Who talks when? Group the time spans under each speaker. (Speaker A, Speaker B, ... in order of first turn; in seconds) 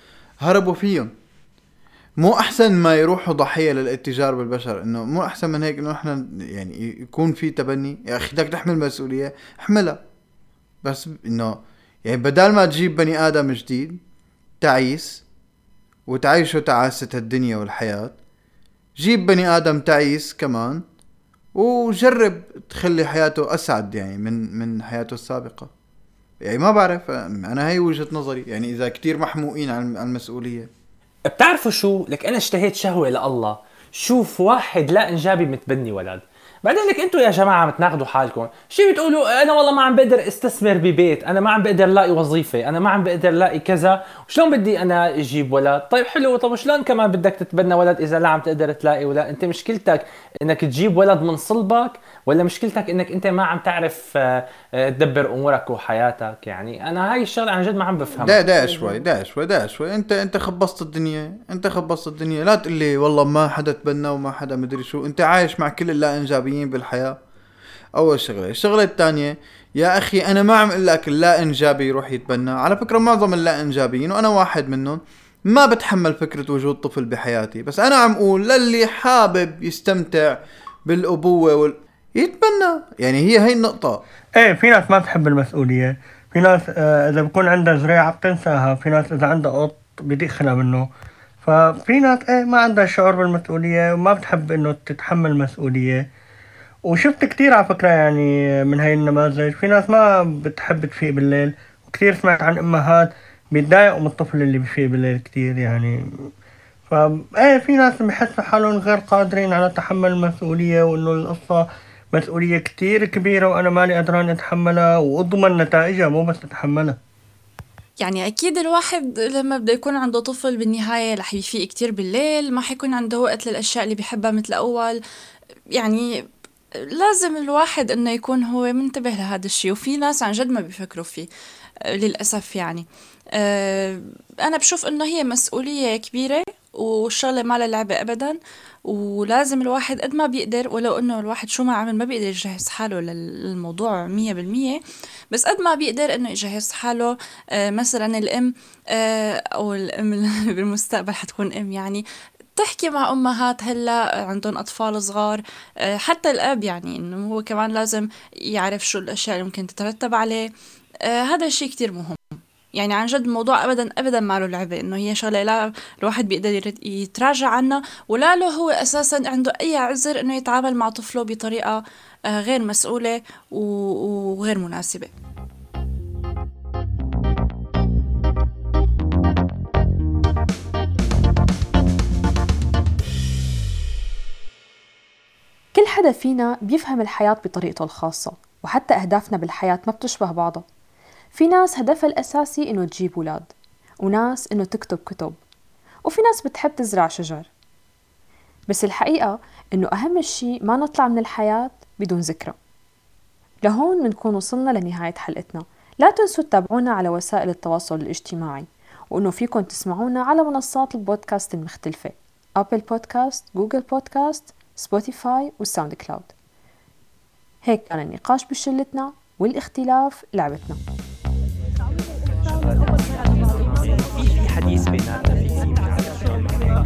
Speaker A: 0.4-1.1, 2.2-10.0, 10.8-14.0, 14.6-15.2, 16.1-18.1, 19.0-20.8, 21.6-25.7, 26.4-30.7, 58.2-67.2, 68.0-84.0
Speaker B: 31.3-58.5, 224.2-226.7
Speaker C: 58.4-59.0, 185.7-190.6, 191.3-195.4, 196.1-197.5, 198.7-202.6, 203.6-216.3, 217.6-220.8
Speaker D: 84.4-90.9, 91.4-96.1, 96.9-106.0, 106.9-117.0
Speaker E: 118.0-125.0, 125.8-126.1, 126.8-131.3, 131.9-144.8, 145.3-152.0, 152.6-160.5, 161.0-175.1